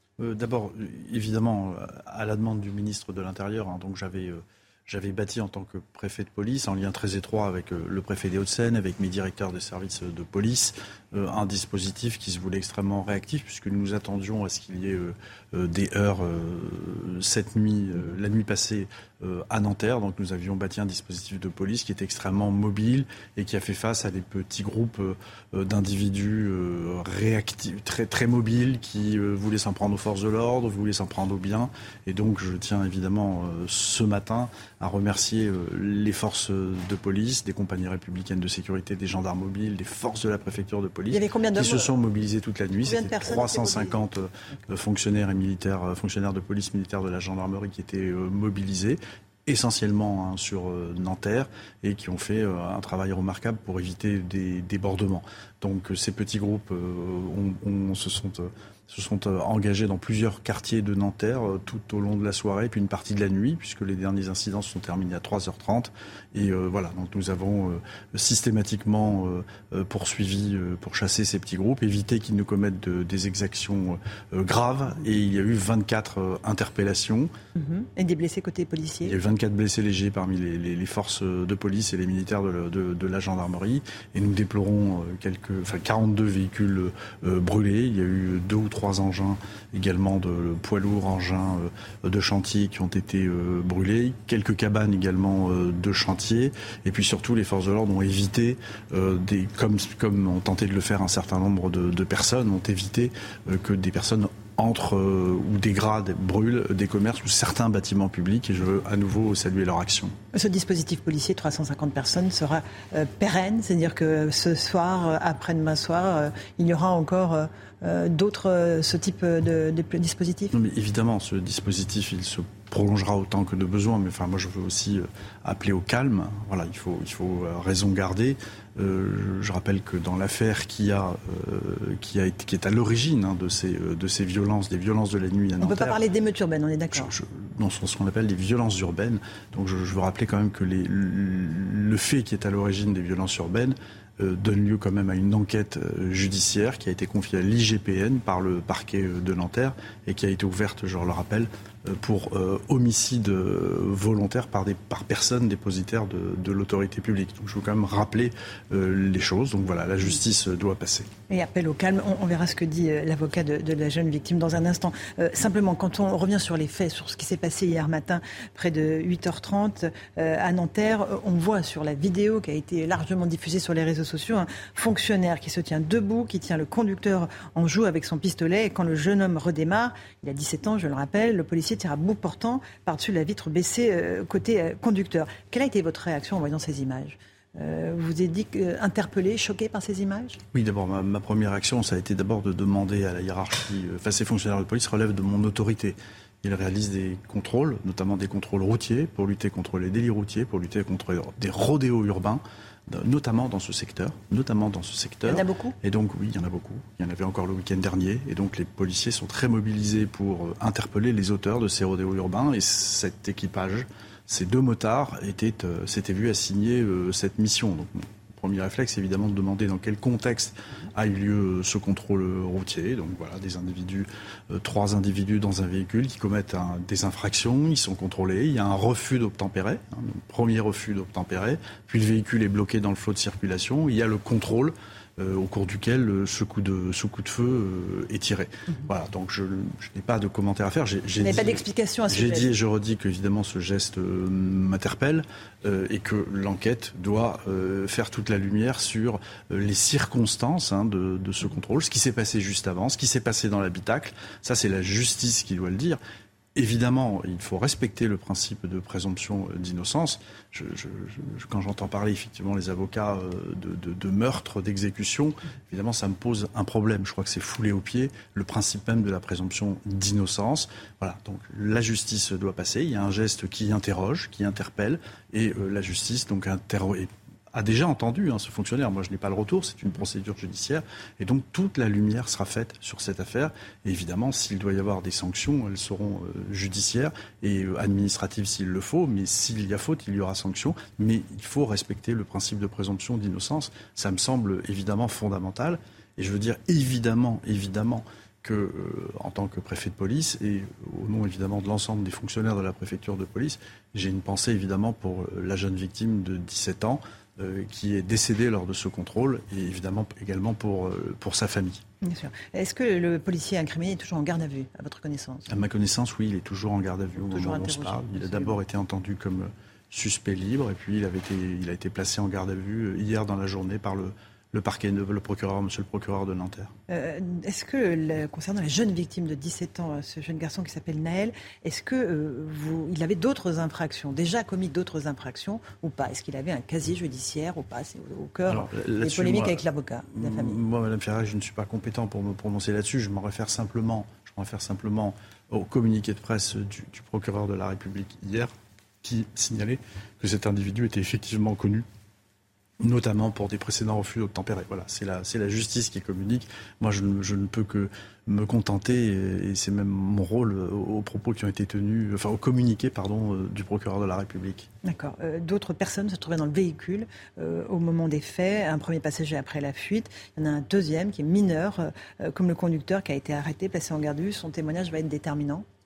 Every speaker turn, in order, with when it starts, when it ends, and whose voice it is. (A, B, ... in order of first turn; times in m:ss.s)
0:00.2-1:17.3 A
0:41.1-0:41.9 B
0:42.8-0:44.0 B
1:17.6-1:19.2 B
1:19.0-1:50.2 A
1:50.3-2:00.5 B
2:00.5-2:16.0 A
2:15.6-2:17.1 B
2:16.9-2:41.1 A
2:41.3-3:10.4 B
3:10.5-4:16.0 A
3:25.3-3:25.8 B
4:01.2-4:02.5 B
4:16.6-5:11.8 A
5:12.0-5:15.5 B
5:15.5-5:26.7 A
5:17.2-5:18.6 B
5:26.9-5:40.6 B
5:38.5-5:51.9 A
5:52.8-6:04.7 A
6:04.8-6:15.7 B